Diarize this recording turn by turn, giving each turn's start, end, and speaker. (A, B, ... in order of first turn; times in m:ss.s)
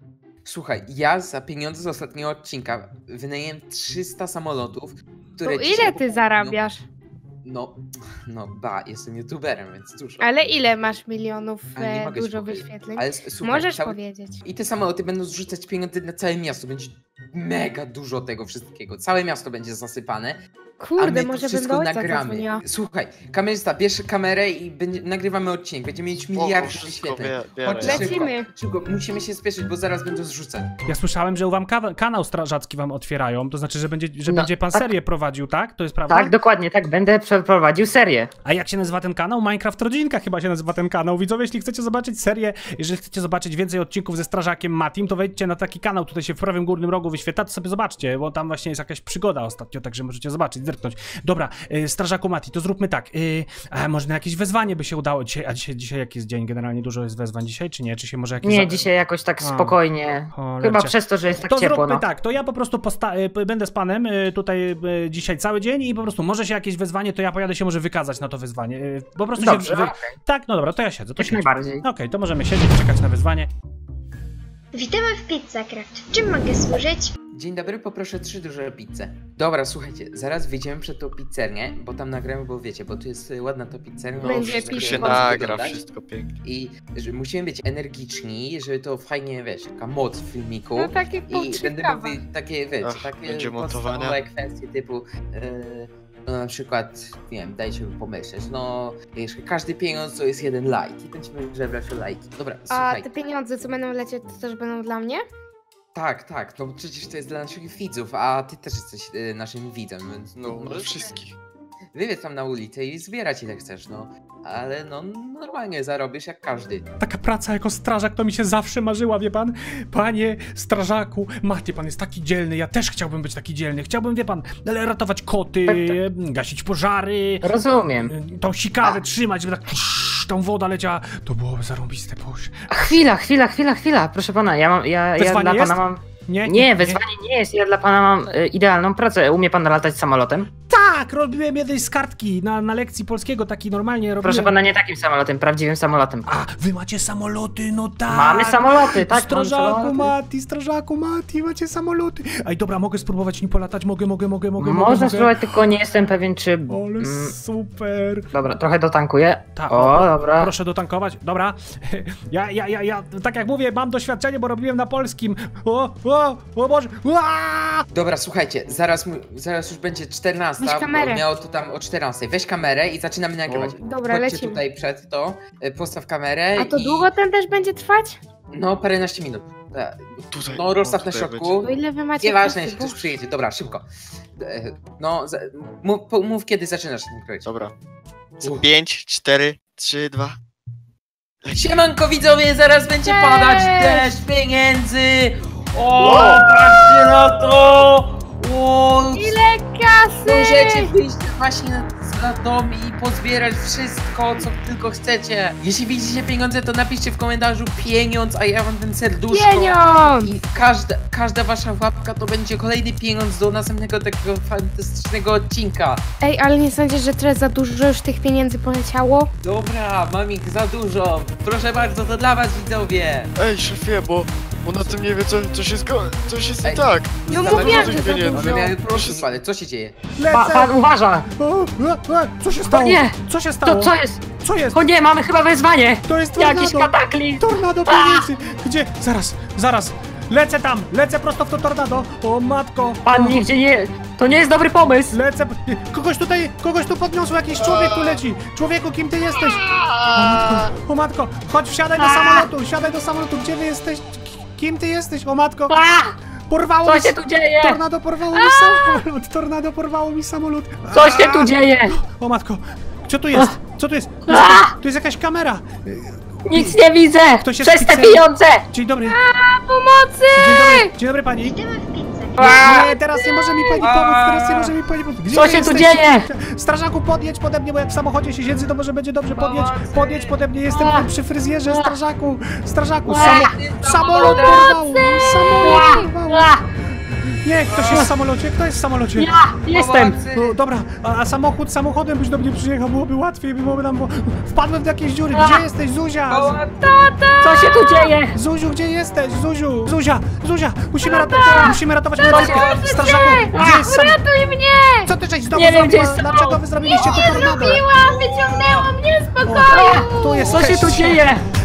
0:00.4-0:06.6 A
0:05.4-0:06.8 B
0:07.4-0:10.2 A
0:10.2-0:14.4 B
0:11.8-0:20.4 A
0:20.8-0:22.6 B
0:21.0-0:30.7 A
0:26.3-0:28.3 C
0:27.8-0:28.5 B
0:30.8-0:36.3 D
0:34.3-0:34.9 E
0:36.1-0:38.3 E
0:38.4-0:58.9 D
0:58.4-1:02.0 E
0:59.4-0:59.8 D
1:00.3-1:00.9 D
1:01.4-1:13.5 D
1:09.4-1:10.1 E
1:11.2-1:11.8 E
1:14.7-1:17.1 F
1:17.4-1:25.8 A
1:24.2-1:26.3 C
1:24.2-1:25.4 B
1:26.4-1:43.0 A
1:30.8-1:32.2 B
1:32.8-1:34.2 C
1:42.7-1:45.2 B
1:45.9-1:51.2 A
1:50.4-1:51.3 C
1:51.9-1:56.8 A
1:57.0-2:07.5 D
2:05.6-2:06.0 E
2:07.4-2:08.1 E
2:08.0-2:12.5 D
2:12.7-2:20.5 E
2:15.2-2:17.0 D
2:20.7-2:24.5 D
2:24.2-2:26.3 E
2:26.2-2:35.3 D
2:28.1-2:30.1 E
2:34.6-2:37.3 E
2:36.7-2:38.3 D
2:38.3-2:40.5 E
2:39.5-2:47.8 D
2:47.9-2:57.1 A
2:50.6-2:51.2 B
2:53.5-2:53.8 C
2:53.8-2:54.6 B
2:56.6-2:58.2 B
2:58.5-3:03.8 A
3:00.3-3:01.6 C
3:01.6-3:03.1 B
3:04.4-3:07.5 A
3:07.4-3:07.7 C
3:08.4-3:10.4 C
3:11.5-3:19.4 A
3:13.0-3:14.1 B
3:16.0-3:17.1 C
3:19.1-3:20.9 B
3:20.2-3:36.0 A
3:29.3-3:30.3 B
3:36.2-3:39.3 B
3:39.4-3:43.3 A
3:43.4-3:49.2 C
3:46.6-3:49.9 A
3:47.3-3:48.7 B
3:50.2-3:50.8 D
3:50.3-3:51.3 E
3:51.3-3:54.9 D
3:52.7-3:58.3 E
3:56.0-4:03.4 D
4:03.0-4:05.2 E
4:05.1-4:15.7 D
4:07.6-4:08.2 C
4:09.7-4:10.7 C
4:12.0-4:12.5 E
4:15.7-4:16.1 E
4:16.5-4:26.8 D
4:16.8-4:17.8 E
4:20.9-4:22.0 E
4:24.3-4:24.7 E
4:26.4-4:28.6 E
4:27.4-4:29.2 D
4:29.1-4:30.9 B
4:30.3-4:31.5 D
4:31.4-4:32.4 F
4:32.4-4:32.9 E
4:32.4-4:46.5 D
4:32.8-4:33.8 B
4:33.8-4:34.7 A
4:35.3-4:36.3 E
4:39.3-4:40.3 A
4:40.7-4:41.1 E
4:41.7-4:42.0 E
4:43.0-4:43.5 E
4:43.1-4:44.7 A
4:44.1-4:44.7 E
4:44.7-4:46.0 B
4:45.6-4:46.6 E
4:47.4-4:49.3 D
4:49.2-4:50.2 E
4:49.7-4:50.6 A
4:50.3-4:56.6 D
4:55.3-4:55.6 E
4:56.3-4:57.6 A
4:57.3-4:58.1 B
4:57.4-4:58.3 E
4:58.3-5:04.2 D
5:01.0-5:01.4 B
5:01.4-5:02.7 E
5:02.2-5:05.1 B
5:02.4-5:03.3 A
5:03.5-5:03.9 E
5:05.0-5:07.8 D
5:05.5-5:06.7 E
5:06.8-5:10.5 B
5:07.2-5:08.9 A
5:09.4-5:11.3 D
5:09.7-5:11.4 E